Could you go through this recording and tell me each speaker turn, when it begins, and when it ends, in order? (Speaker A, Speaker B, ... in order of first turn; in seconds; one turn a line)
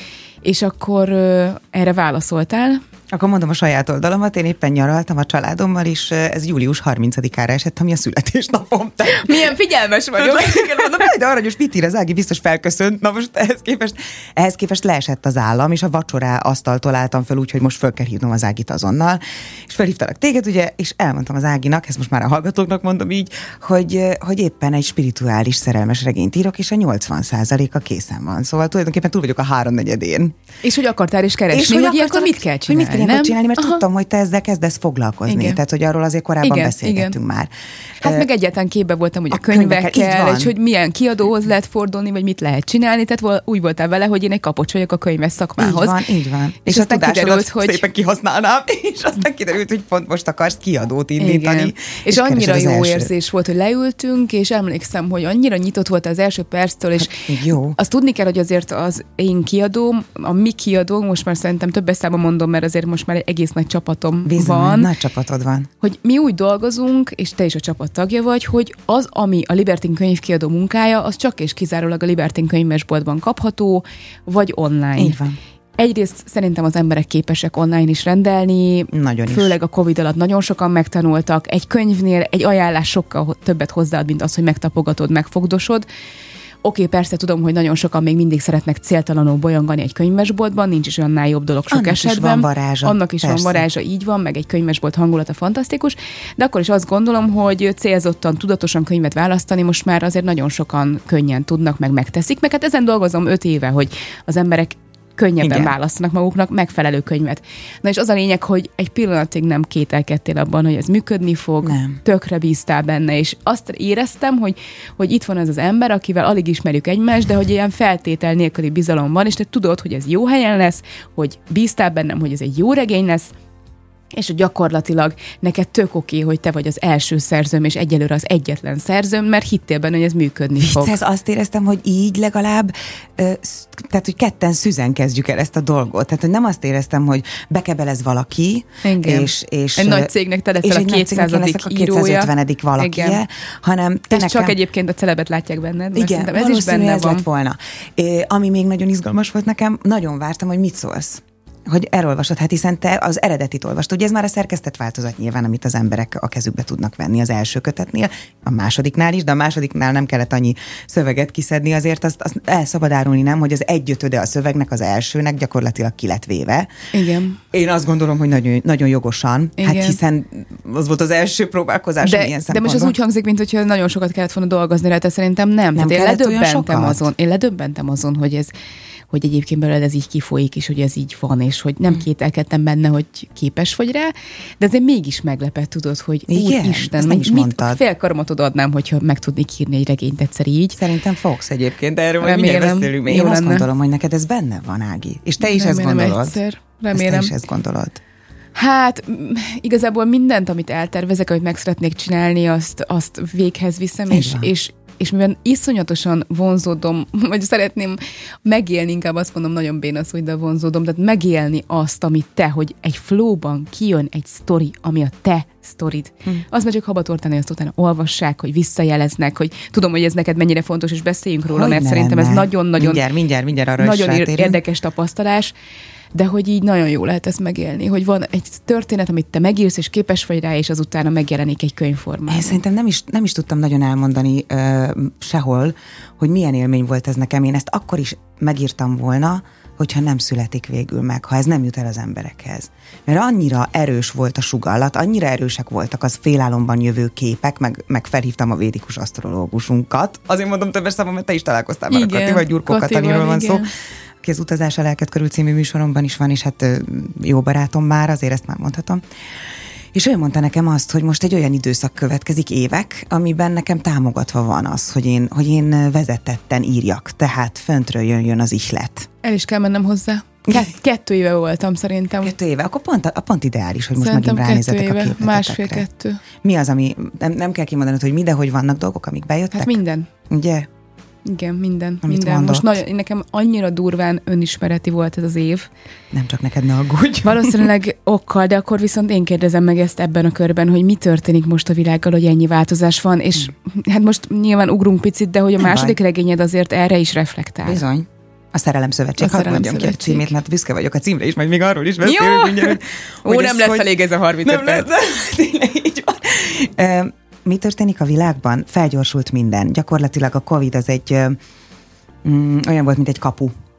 Speaker A: 0.4-2.8
Speaker B: 3.1-9.5
Speaker A: 9.0-11.1
Speaker B: 10.2-30.4
Speaker A: 30.6-33.8
Speaker B: 31.5-38.3
Speaker A: 35.3-35.6
Speaker A: 36.4-37.2
Speaker A: 38.0-46.0
Speaker B: 39.3-40.5
Speaker B: 45.6-53.1
Speaker A: 46.6-47.8
Speaker A: 51.2-64.9
Speaker B: 57.0-57.8
Speaker B: 64.2-65.7
Speaker A: 65.8-75.2
Speaker B: 75.0-75.4
Speaker A: 75.8-85.8
Speaker B: 78.9-79.5
Speaker A: 86.6-123.3
Speaker B: 91.7-93.7
Speaker B: 105.4-105.7
Speaker B: 111.6-112.0
Speaker A: 124.1-131.0
Speaker B: 130.6-144.6
Speaker A: 138.8-143.2
Speaker A: 144.1-147.2
Speaker B: 145.9-166.7
Speaker A: 166.9-167.4
Speaker B: 167.5-172.9
Speaker A: 169.6-170.0
Speaker A: 172.0-178.5
Speaker B: 175.8-177.1
Speaker A: 179.1-190.8
Speaker B: 186.3-187.8
Speaker B: 190.7-196.4
Speaker A: 192.2-193.7
Speaker A: 195.4-197.3
Speaker B: 196.9-198.0
Speaker A: 198.5-223.0
Speaker B: 204.1-204.5
Speaker B: 221.5-224.6
Speaker A: 223.8-225.5
Speaker A: 226.1-232.6
Speaker B: 232.3-253.6
Speaker A: 251.9-253.7
Speaker B: 254.2-259.0
Speaker B: 259.9-269.1
Speaker A: 269.2-272.3
Speaker B: 272.2-275.8
Speaker A: 274.0-276.2
Speaker B: 276.4-279.8
Speaker A: 279.5-280.1
Speaker B: 280.3-280.7
Speaker A: 281.2-285.7
Speaker B: 282.0-282.8
Speaker B: 286.1-287.6
Speaker A: 287.2-297.8
Speaker B: 295.6-296.0
Speaker B: 297.6-303.9
Speaker A: 299.2-300.3
Speaker A: 302.0-304.9
Speaker B: 304.4-311.4
Speaker B: 312.2-313.5